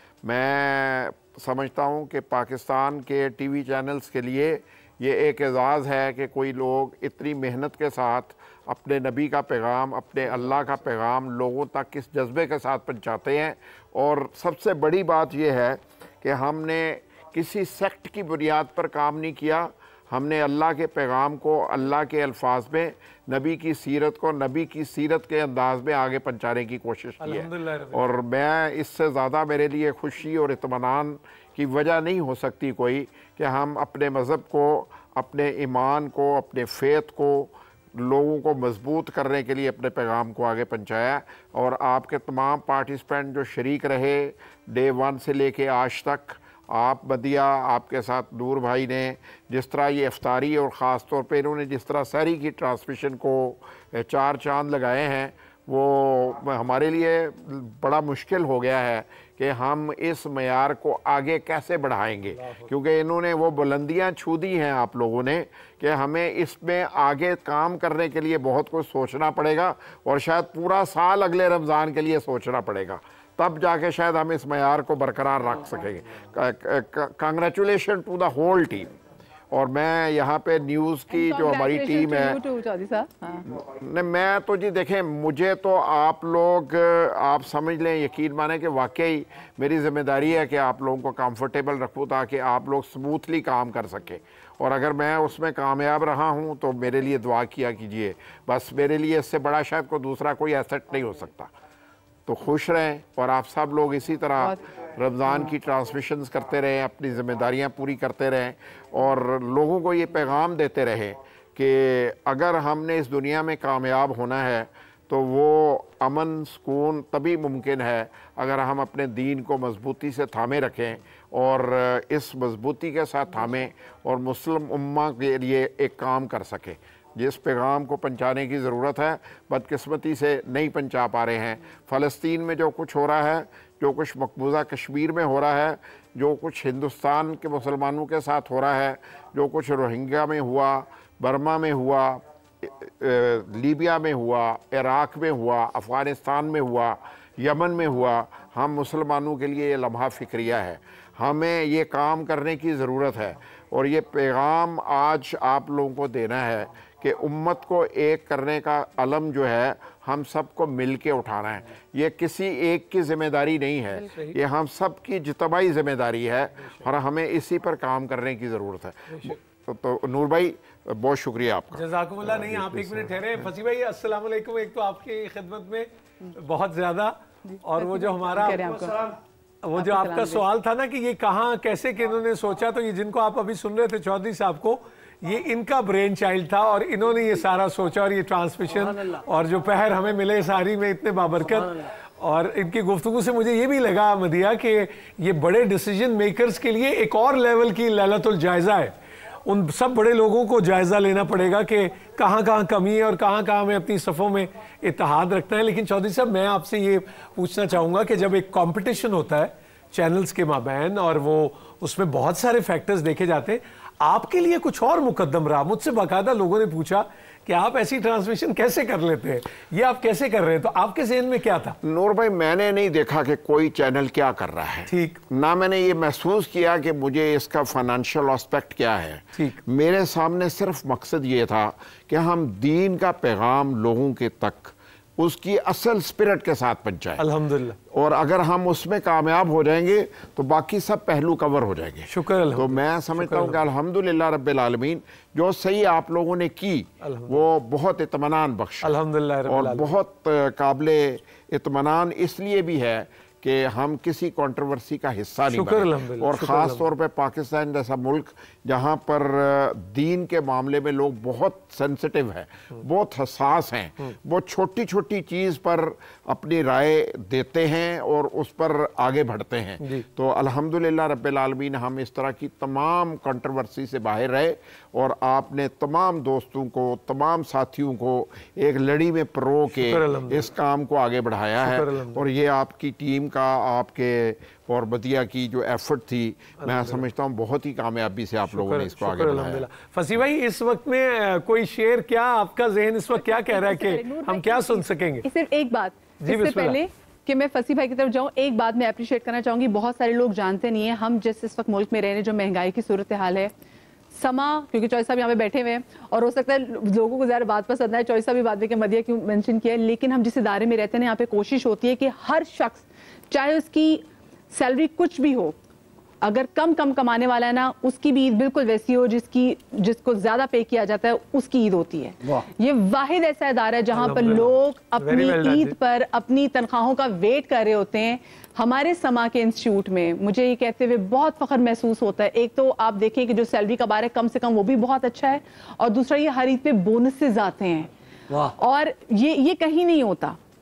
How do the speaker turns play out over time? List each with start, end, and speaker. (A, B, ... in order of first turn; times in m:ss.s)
0:00.2-1:18.9 A
0:27.2-0:28.1 B
1:02.3-1:02.7 B
1:19.5-1:22.4 A
1:21.1-1:23.5 C
1:23.5-1:41.5 A
1:42.3-2:53.5 A
2:44.1-2:44.4 B
2:51.7-2:59.0 B
2:57.4-2:59.2 C
2:59.6-3:18.9 B
2:59.8-3:00.4 C
3:19.4-3:41.8 B
3:41.8-3:57.2 A
3:44.9-3:45.2 B
3:57.2-3:57.8 B
3:57.9-4:49.7 A
4:02.1-4:03.6 B
4:07.0-4:07.5 B
4:08.8-4:10.0 B
4:15.5-4:16.8 B
4:39.7-4:40.5 B
4:41.6-4:42.2 B
4:46.6-4:47.0 B
4:48.4-4:55.2 B
4:53.2-5:03.5 C
4:56.2-4:56.8 B
5:04.1-5:15.6 C
5:16.2-5:37.9 C
5:23.9-5:25.8 B
5:38.6-5:40.4 C